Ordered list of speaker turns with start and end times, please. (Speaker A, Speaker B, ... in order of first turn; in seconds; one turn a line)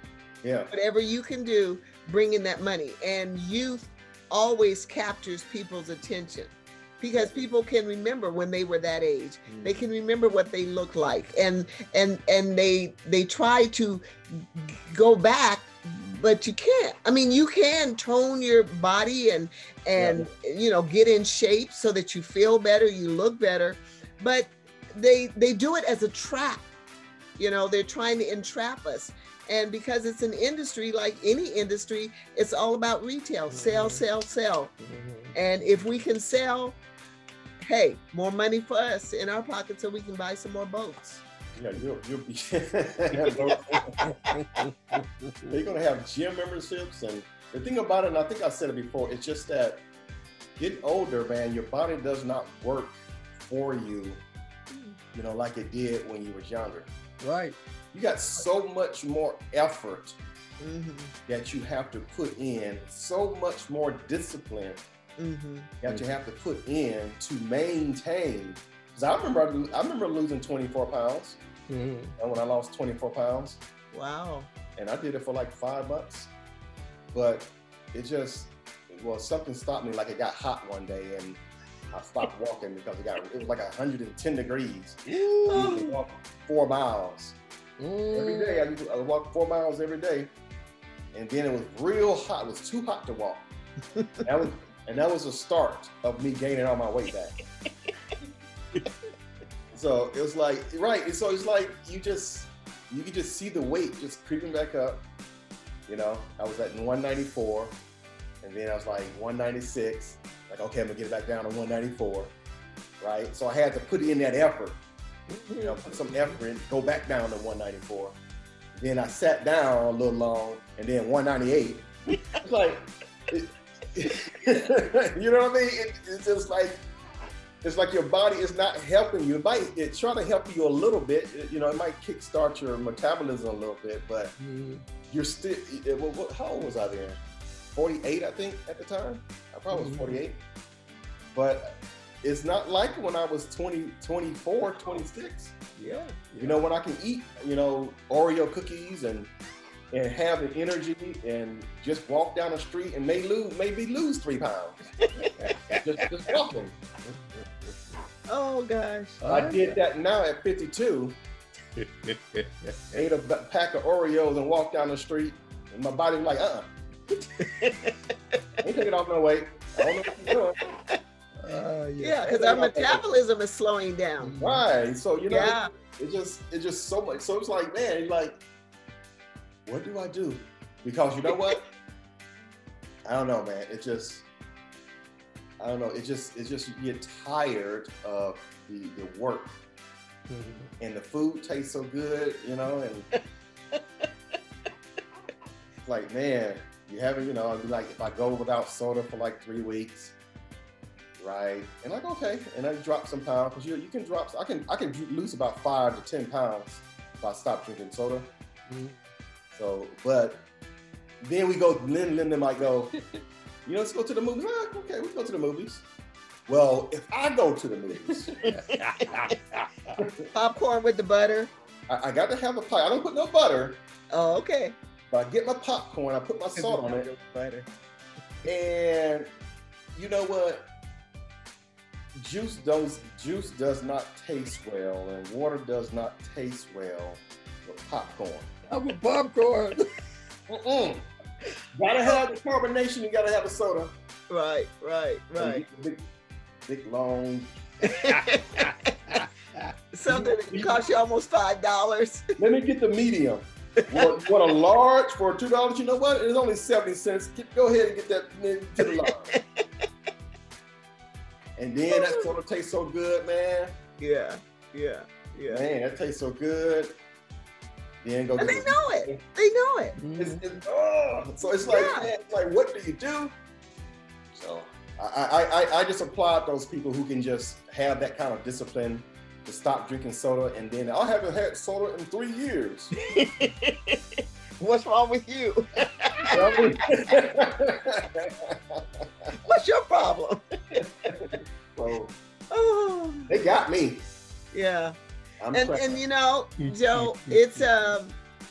Speaker A: 0.4-0.7
Speaker B: 0.7-26.6
Speaker A: 7.2-7.5
Speaker A: 9.5-9.8
Speaker A: 20.0-20.3
Speaker B: 27.4-34.8
Speaker C: 33.5-34.1
Speaker C: 34.8-35.4
Speaker B: 35.3-36.8
Speaker B: 37.6-41.2
Speaker A: 41.5-44.4
Speaker C: 44.0-45.6
Speaker A: 45.5-49.9
Speaker A: 50.6-54.2
Speaker A: 55.1-56.9
Speaker C: 57.2-57.6
Speaker A: 57.9-60.2
Speaker B: 60.6-61.1
Speaker A: 61.3-64.8
Speaker B: 65.2-65.7
Speaker A: 65.8-71.4
Speaker C: 71.7-72.2
Speaker A: 72.2-73.6
Speaker B: 73.9-74.5
Speaker A: 74.8-76.3
Speaker A: 77.1-87.4
Speaker C: 85.4-85.7
Speaker B: 85.5-86.0
Speaker C: 87.8-88.7
Speaker A: 88.1-90.3
Speaker A: 91.1-93.5
Speaker B: 94.0-94.2
Speaker A: 94.2-97.4
Speaker A: 99.7-105.1
Speaker A: 105.9-107.8
Speaker A: 108.4-112.3
Speaker A: 113.0-114.8
Speaker C: 115.3-116.4
Speaker A: 115.6-118.2
Speaker A: 118.8-126.8
Speaker A: 127.6-134.3
Speaker C: 134.4-134.9
Speaker A: 135.1-137.2
Speaker A: 137.7-140.4
Speaker C: 139.7-140.2
Speaker A: 141.3-145.7
Speaker B: 145.8-146.2
Speaker C: 145.8-146.6
Speaker A: 146.4-149.3
Speaker A: 149.9-154.8
Speaker B: 155.0-155.5
Speaker C: 155.4-156.0
Speaker A: 155.7-156.8
Speaker C: 157.1-157.4
Speaker B: 158.3-159.2
Speaker C: 159.2-159.8
Speaker A: 159.2-161.2
Speaker C: 161.8-163.0
Speaker A: 162.9-166.7
Speaker B: 167.4-168.0
Speaker A: 168.6-170.6
Speaker B: 170.3-171.0
Speaker C: 171.4-172.3
Speaker B: 172.0-174.4
Speaker A: 172.2-173.1
Speaker C: 174.2-174.7
Speaker A: 174.4-178.4
Speaker B: 175.3-175.7
Speaker A: 179.7-181.7
Speaker A: 183.1-184.3
Speaker A: 185.6-189.6
Speaker C: 190.3-190.7
Speaker A: 190.8-193.1
Speaker A: 195.8-200.2
Speaker A: 201.2-208.3
Speaker C: 208.7-209.0
Speaker A: 209.5-210.5
Speaker A: 211.2-212.9
Speaker A: 213.7-215.8
Speaker A: 216.5-218.3
Speaker C: 218.4-220.0
Speaker B: 220.3-221.5
Speaker A: 221.9-223.8
Speaker B: 224.1-224.8
Speaker A: 225.1-227.1
Speaker B: 226.6-227.7
Speaker A: 228.5-229.3
Speaker A: 229.9-230.7
Speaker A: 232.2-238.5
Speaker C: 238.7-239.9
Speaker A: 240.5-241.1
Speaker A: 241.8-243.9
Speaker B: 244.3-245.7
Speaker A: 245.4-246.1
Speaker A: 246.7-248.2
Speaker B: 247.9-248.9
Speaker B: 249.9-252.3
Speaker A: 250.1-250.8
Speaker A: 252.4-259.3
Speaker B: 259.3-259.6
Speaker A: 261.6-263.8
Speaker B: 261.9-262.3
Speaker B: 264.0-265.6
Speaker A: 265.5-267.0
Speaker A: 268.0-269.2
Speaker B: 268.4-270.0
Speaker C: 270.0-270.4
Speaker A: 270.2-273.4
Speaker B: 271.6-272.1
Speaker A: 274.3-282.9
Speaker B: 283.0-286.7
Speaker A: 286.3-289.4
Speaker B: 289.4-291.1
Speaker A: 290.8-292.1
Speaker B: 292.5-293.3
Speaker A: 293.3-294.1
Speaker B: 294.5-294.9
Speaker A: 295.4-296.0
Speaker B: 295.5-298.2
Speaker C: 296.6-298.0